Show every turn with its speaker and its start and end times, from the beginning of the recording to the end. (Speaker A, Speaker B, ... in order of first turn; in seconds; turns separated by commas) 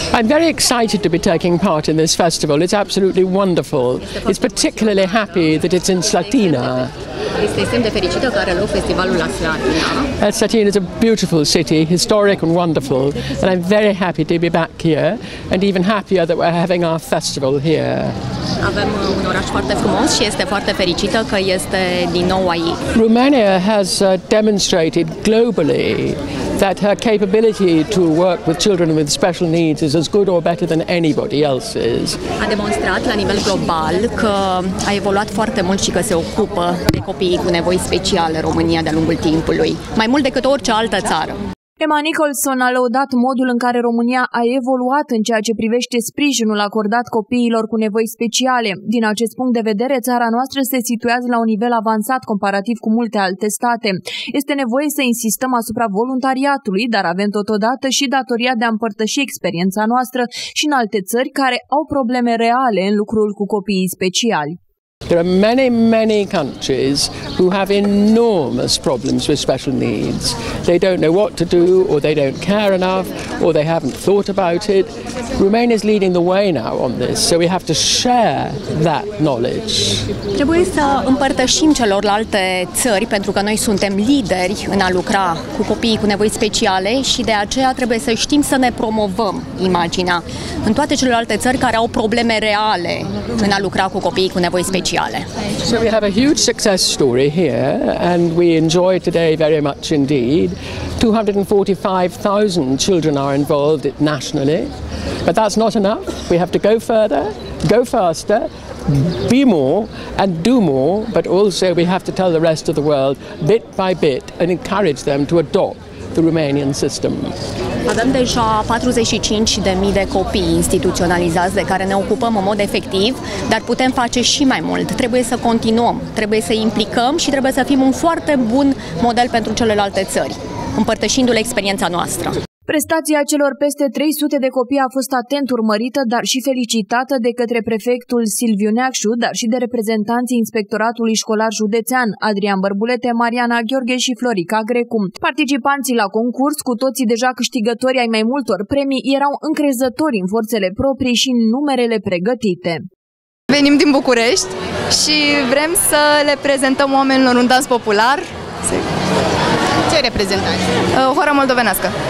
Speaker A: 0.1-6.9, Speaker B: 7.4-10.1, Speaker A: 10.2-18.1, Speaker B: 18.6-22.8, Speaker A: 22.9-32.2, Speaker B: 32.4-41.4, Speaker C: 41.8-64.6, Speaker A: 65.1-80.1, Speaker B: 80.3-95.3, Speaker A: 95.6-104.7, Speaker A: 105.2-117.3, Speaker B: 117.9-132.3, Speaker C: 132.7-152.8, Speaker D: 153.5-158.9, Speaker D: 159.9-161.9